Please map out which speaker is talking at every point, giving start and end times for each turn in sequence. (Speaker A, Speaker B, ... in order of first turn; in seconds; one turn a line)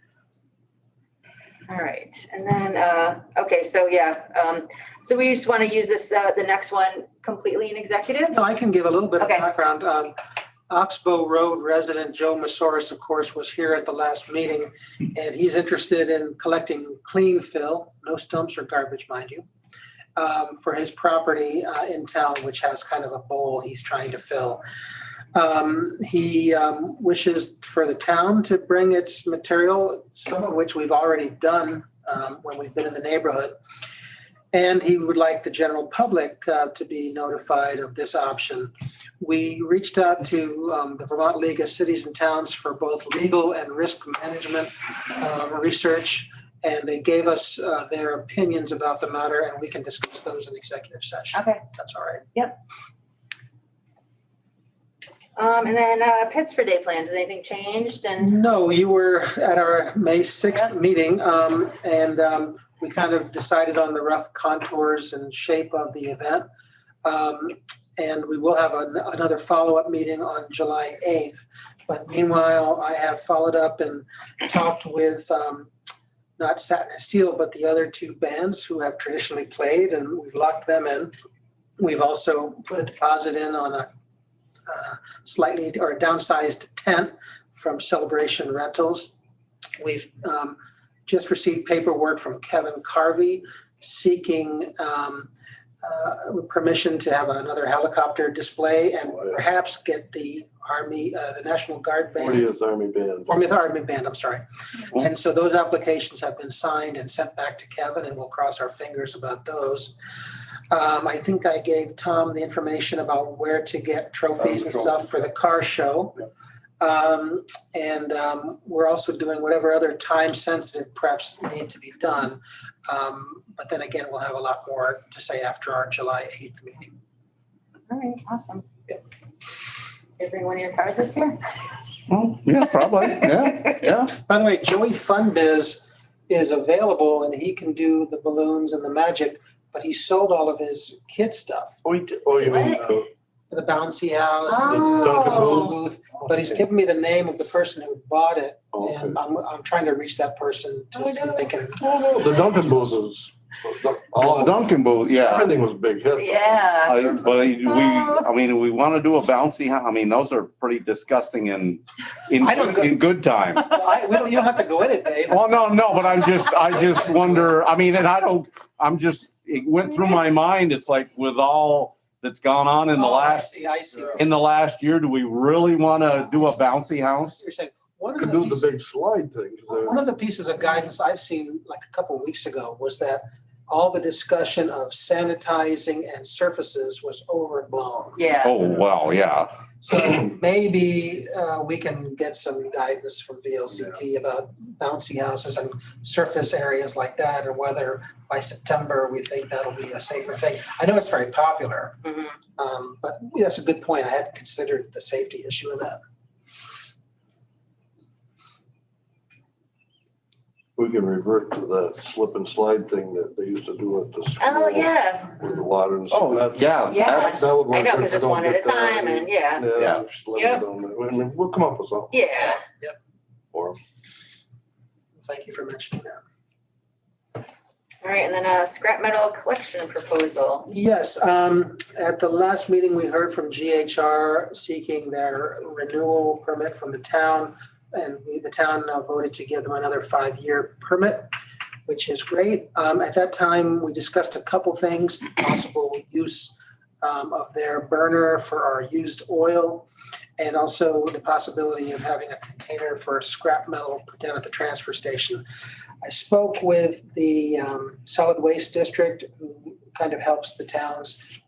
Speaker A: 1.7-8.4
Speaker B: 8.3-10.1
Speaker A: 9.2-9.4
Speaker B: 10.7-19.4
Speaker B: 20.1-24.6
Speaker B: 25.3-33.5
Speaker B: 34.5-52.3
Speaker A: 51.3-51.6
Speaker A: 55.4-58.4
Speaker B: 58.2-66.5
Speaker B: 67.0-75.7
Speaker B: 76.4-81.1
Speaker B: 81.8-83.9
Speaker B: 84.7-89.1
Speaker B: 89.8-95.3
Speaker B: 95.8-102.5
Speaker C: 99.1-99.4
Speaker C: 102.2-103.3
Speaker B: 103.3-110.0
Speaker B: 110.7-116.2
Speaker C: 114.5-115.0
Speaker B: 116.8-127.0
Speaker A: 127.9-128.7
Speaker A: 130.2-131.7
Speaker D: 132.1-134.1
Speaker B: 134.1-141.8
Speaker C: 141.8-143.1
Speaker A: 142.4-142.9
Speaker B: 143.5-152.9
Speaker A: 144.5-145.7
Speaker C: 144.5-145.8
Speaker C: 146.3-146.6
Speaker C: 148.7-149.2
Speaker A: 150.9-151.5
Speaker C: 151.8-156.7
Speaker D: 154.2-155.5
Speaker A: 156.1-158.3
Speaker D: 156.8-163.8
Speaker B: 162.4-163.0
Speaker B: 163.6-165.4
Speaker D: 165.3-173.5
Speaker B: 166.7-167.5
Speaker B: 172.9-174.3
Speaker D: 174.2-177.4
Speaker B: 177.2-178.7
Speaker C: 178.2-180.0
Speaker B: 179.8-188.3
Speaker A: 188.2-188.5
Speaker D: 188.4-189.5
Speaker B: 189.8-206.0
Speaker C: 210.8-222.2
Speaker A: 214.4-215.3
Speaker D: 216.1-217.4
Speaker A: 216.9-219.7
Speaker D: 219.8-220.0
Speaker A: 220.3-220.6
Speaker A: 222.1-222.6
Speaker C: 223.5-223.8
Speaker B: 225.2-226.2
Speaker A: 228.0-230.7
Speaker B: 230.7-241.3
Speaker B: 241.9-249.9
Speaker B: 250.4-255.4
Speaker B: 256.0-261.2